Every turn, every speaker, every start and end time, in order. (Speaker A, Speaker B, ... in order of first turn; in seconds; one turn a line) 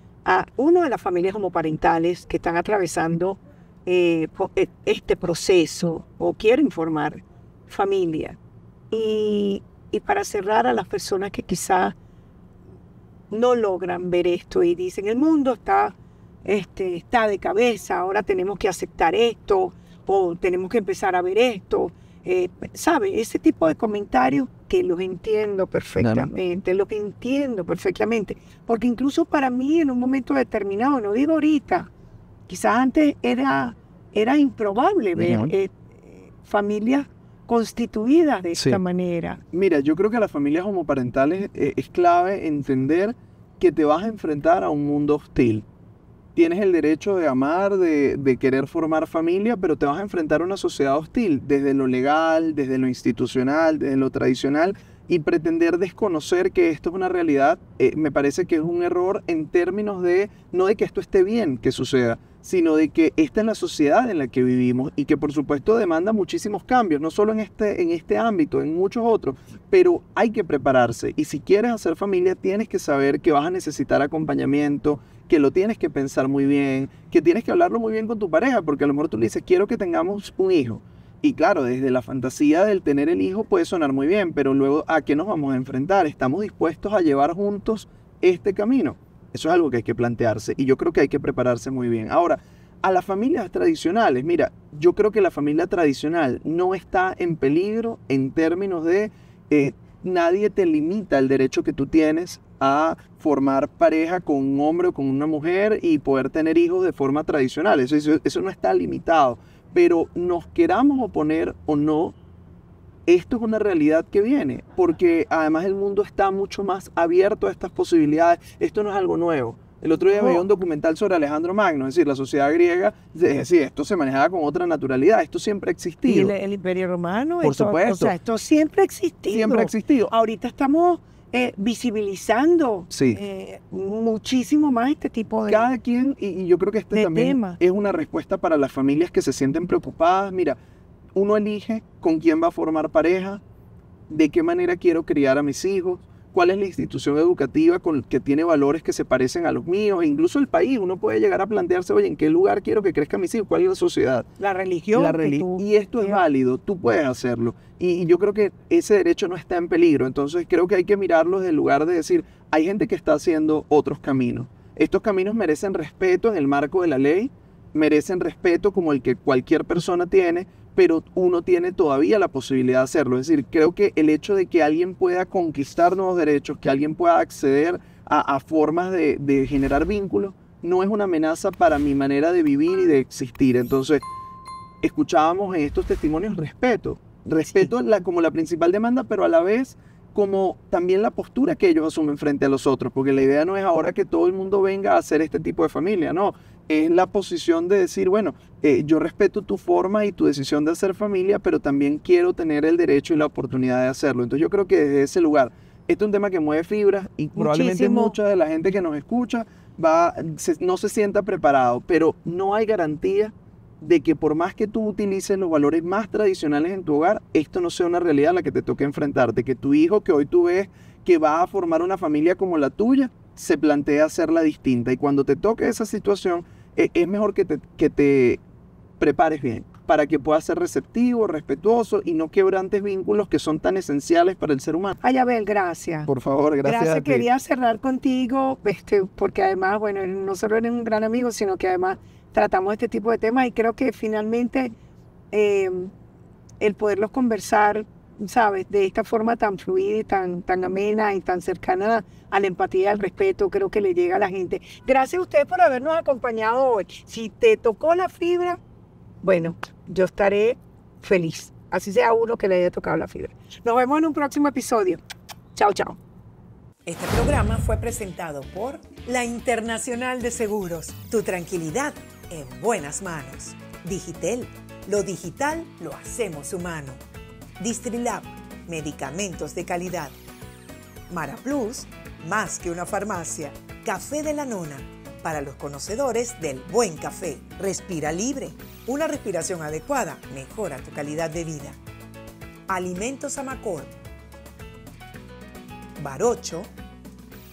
Speaker A: 0.2-8.4
Speaker A: 8.9-11.9
Speaker A: 13.3-31.9
Speaker B: 26.0-26.3
Speaker A: 32.5-39.4
Speaker B: 35.2-35.5
Speaker B: 38.5-38.8
Speaker B: 39.5-45.6
Speaker B: 46.4-112.1
Speaker B: 113.0-126.3
Speaker A: 120.1-120.5
Speaker A: 126.0-135.7
Speaker B: 127.4-128.1
Speaker B: 129.3-130.1
Speaker B: 132.9-133.2
Speaker B: 135.4-140.6
Speaker A: 136.9-137.6
Speaker B: 141.1-143.4
Speaker B: 144.1-154.3
Speaker A: 154.4-156.2
Speaker B: 154.9-184.0
Speaker B: 184.8-228.4
Speaker A: 207.3-208.1
Speaker B: 229.0-235.0
Speaker A: 235.0-236.1
Speaker B: 236.1-237.2
Speaker A: 236.6-244.7
Speaker A: 245.3-245.9
Speaker A: 246.6-258.6
Speaker A: 259.2-265.0
Speaker A: 265.5-266.0
Speaker C: 266.9-277.0
Speaker C: 277.6-280.1
Speaker C: 281.1-291.8
Speaker C: 292.7-294.0
Speaker C: 296.0-296.7